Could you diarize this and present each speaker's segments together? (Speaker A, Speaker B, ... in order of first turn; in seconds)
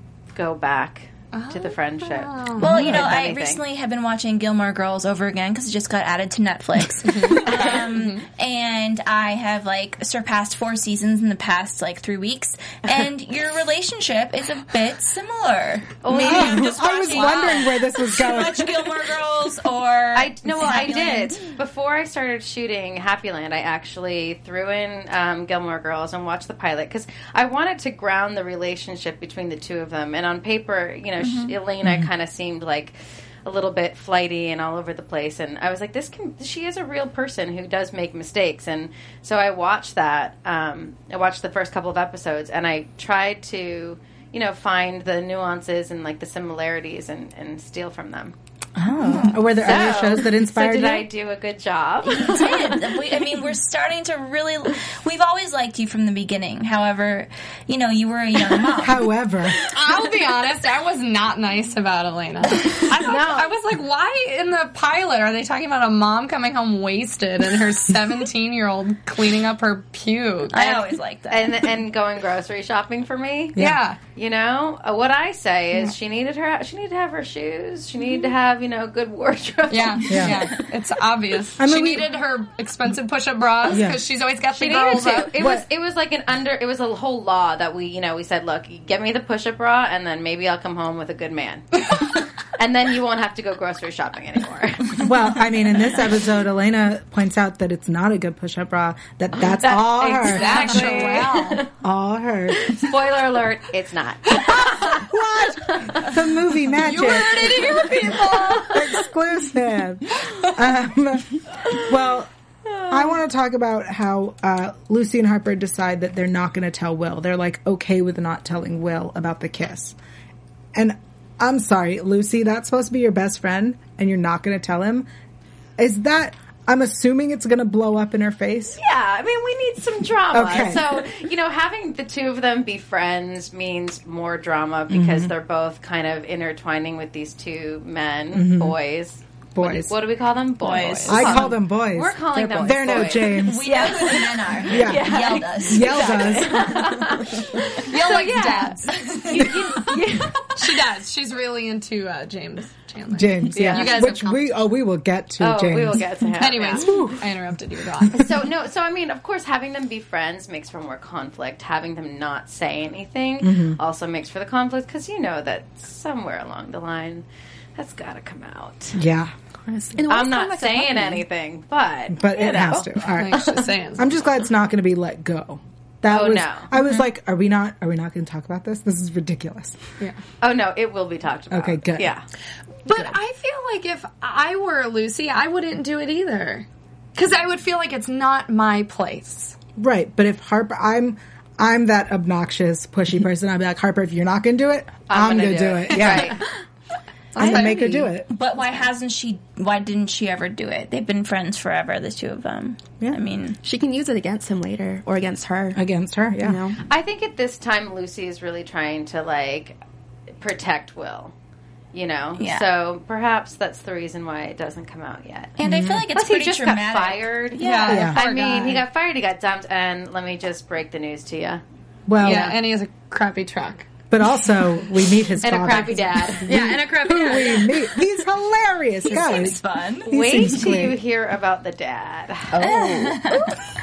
Speaker A: 0.3-3.6, 16.0-16.8, 20.1-48.3, 49.5-52.5, 63.0-63.5, 71.3-73.6, 74.1-80.4, 84.5-95.1, 99.6-101.7, 102.5-105.1, 105.6-106.1, 107.3-108.8, 128.7-150.7, 153.5-154.0, 155.4-157.0, 158.1-169.0, 170.1-173.7, 176.1-176.7, 180.4-182.2, 195.1-196.5, 206.8-209.8, 210.4-211.3, 211.9-215.6, 216.1-221.6, 222.2-222.5, 225.4-226.5, 230.1-232.7
Speaker B: 1.3-2.9, 7.0-8.2, 52.2-52.6, 59.6-70.8, 73.5-74.0, 79.7-85.4, 100.1-101.6, 106.8-108.9, 147.8-149.8, 150.6-154.7, 156.4-158.3, 173.0-174.2, 182.8-189.6, 197.3-198.2, 217.6-218.8, 222.2-223.9, 226.4-227.9
Speaker C: 2.6-21.4, 31.2-31.5, 49.1-49.4, 52.0-59.0, 70.5-71.6, 140.6-141.5, 143.4-146.5, 197.4-203.6, 212.4-212.6, 215.6-218.1, 229.0-230.1, 232.6-233.6
Speaker D: 2.6-3.0, 16.1-18.7, 48.8-51.1, 58.8-59.6, 73.5-73.8, 80.1-80.5, 81.6-82.1, 83.7-84.0, 85.3-85.6, 95.0-101.0, 101.8-102.6, 104.4-107.9, 108.5-112.3, 112.9-120.0, 120.7-125.0, 125.8-128.8, 130.3-131.0, 134.9-135.3, 138.3-138.8, 139.5-139.9, 141.1-143.9, 144.7-147.1, 153.1-157.3, 163.4-163.8, 168.9-169.3, 172.1-179.8, 181.5-182.1, 189.8-196.4, 197.4-198.3, 205.7-206.6, 215.6-216.1, 217.9-218.2, 222.1-222.6, 224.1-231.0
Speaker E: 169.6-171.2, 203.6-205.8, 206.4-206.8, 232.5-233.6